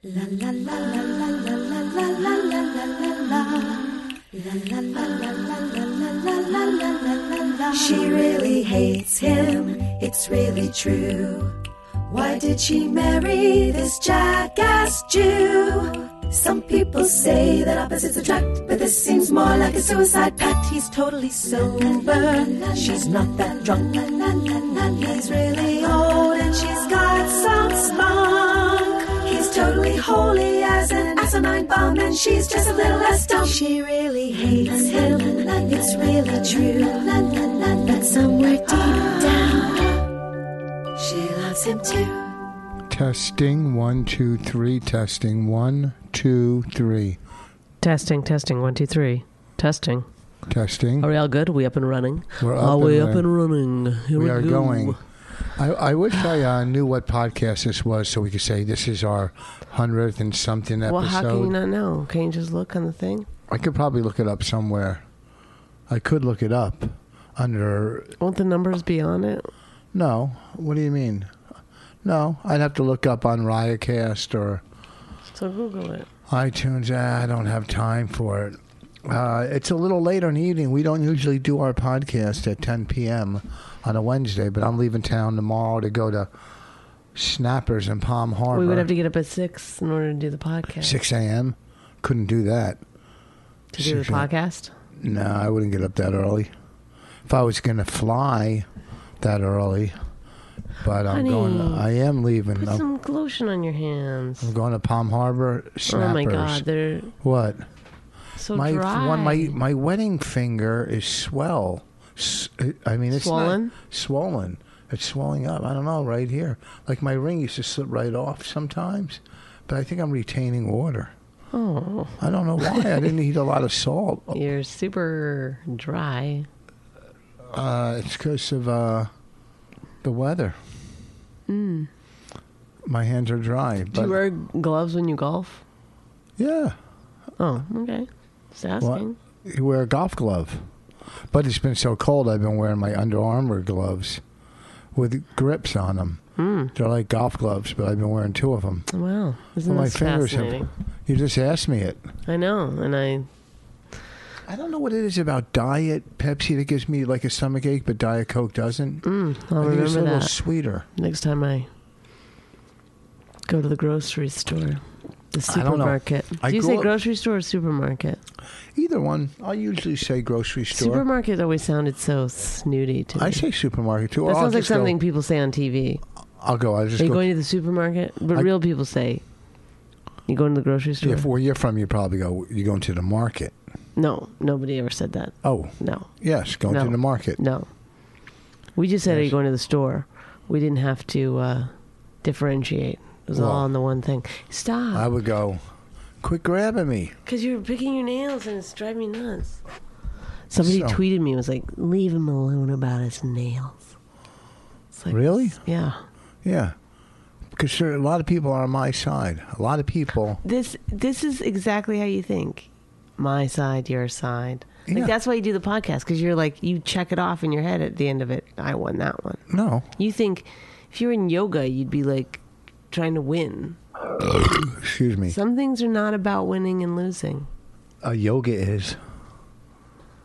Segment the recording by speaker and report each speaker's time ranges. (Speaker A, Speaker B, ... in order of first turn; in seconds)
Speaker A: 0.1-3.8, 4.3-11.6, 12.1-40.1, 41.0-42.4
Speaker B: 42.9-47.2, 50.5-51.1, 52.4-53.3, 54.2-55.0, 55.6-61.5, 63.5-65.0, 65.9-68.2, 69.9-71.3, 72.0-74.6, 76.3-86.3, 87.2-88.9, 90.8-92.8, 93.8-94.3, 95.0-96.5, 97.3-98.7, 99.2-100.0, 100.8-102.8, 104.4-106.6, 107.2-107.7, 108.5-121.1, 122.2-124.4, 127.5-129.1, 130.0-130.6, 132.9-134.2, 136.4-136.8, 138.8-140.7, 141.3-144.2, 144.9-146.2, 146.7-148.9, 149.7-152.1, 154.5-159.0, 159.6-160.9, 165.5-166.9, 168.8-171.1, 173.2-175.0, 176.4-177.3, 181.0-183.6, 185.4-187.4, 189.1-189.3, 193.3-193.7, 194.9-195.6, 196.2-197.2, 200.6-201.0, 205.1-205.6, 206.4-206.8, 207.6-210.4, 214.9-215.1, 219.5-219.9, 224.2-225.4, 228.0-229.0
Speaker C: 47.8-50.1, 51.0-55.0, 60.9-63.3, 68.2-69.5, 75.3-76.1, 88.5-91.0, 93.7-94.7, 101.1-101.9, 102.6-104.5, 105.9-107.1, 108.4-109.6, 113.1-113.7, 121.5-122.2, 124.3-126.5, 131.5-131.9, 133.9-135.6, 137.4-139.2, 146.4-146.7, 148.9-150.7, 152.3-153.3, 159.0-160.3, 161.0-161.7, 163.5-164.8, 165.3-168.2, 170.7-173.4, 174.2-176.0, 177.0-179.2, 180.3-181.3, 184.0-186.1, 186.7-187.7, 188.8-191.7, 192.2-195.1, 197.3-199.6, 200.5-203.9, 204.9-206.0, 210.4-219.4, 220.0-223.8, 225.3-227.5